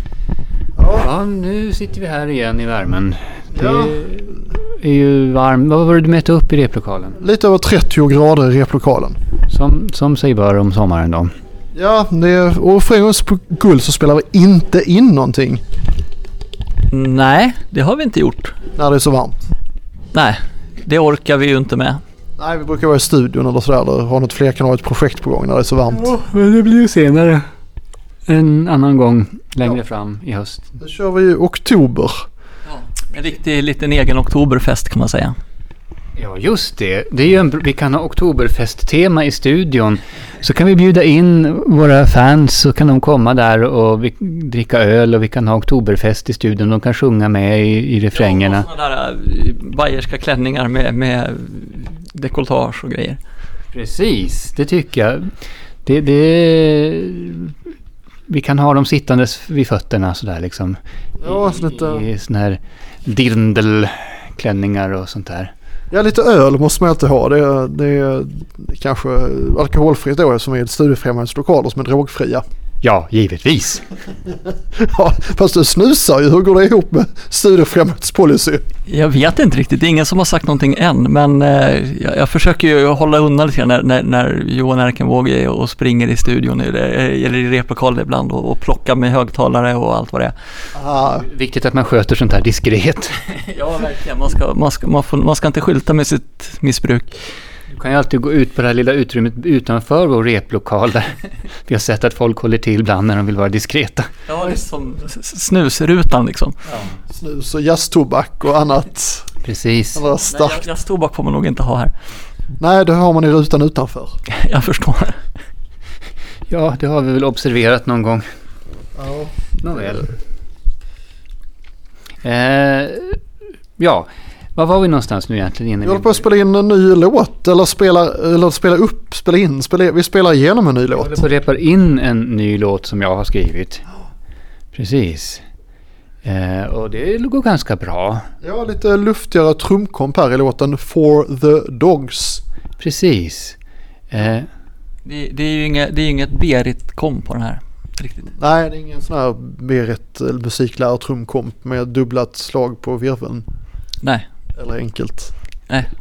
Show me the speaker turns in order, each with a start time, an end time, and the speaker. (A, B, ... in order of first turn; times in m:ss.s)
0:00.8-0:01.1 A
0:00.9-0:07.2 B
0:03.5-0:04.0 A
0:07.2-0:09.2 A
0:09.5-0:11.3 B
0:11.7-0:15.6 A
0:16.9-0:18.5 C
0:18.8-0:19.4 A
0:20.1-0:22.0 C
0:22.4-0:26.1 A
0:25.9-0:27.4 B
0:28.3-0:30.7 B
0:30.8-0:32.2 A
0:32.7-0:35.3 C
0:36.2-0:48.7 B
0:48.1-0:53.2 C
0:53.7-0:55.2 B
0:55.8-0:57.5 B
0:58.3-1:05.5 B
1:01.2-1:02.1 A
1:05.9-1:12.4 A
1:12.8-1:13.8 B
1:14.8-1:18.6 A
1:18.9-1:30.3 C
1:30.7-1:31.2 A
1:31.0-1:33.3 B
1:33.4-1:37.1 C
1:37.7-1:44.1 B
1:44.3-1:46.6 C
1:47.1-1:49.3 A
1:49.4-1:50.0 B
1:49.9-1:50.6 A
1:50.3-1:51.9 C
1:52.6-1:54.1 A
1:54.3-1:55.2 C
1:56.5-1:58.2 B
1:59.0-1:59.3 A
1:59.6-2:00.1 B
2:02.2-2:03.2 B
2:03.8-2:06.3 B
2:05.8-2:11.2 A
2:10.9-2:13.8 B
2:14.7-2:15.4 B
2:16.2-2:18.3 B
2:18.4-2:22.4 A
2:22.8-2:23.6 B
2:24.1-2:24.5 B
2:25.0-2:28.3 C
2:28.4-2:33.4 A
2:34.6-2:35.3 A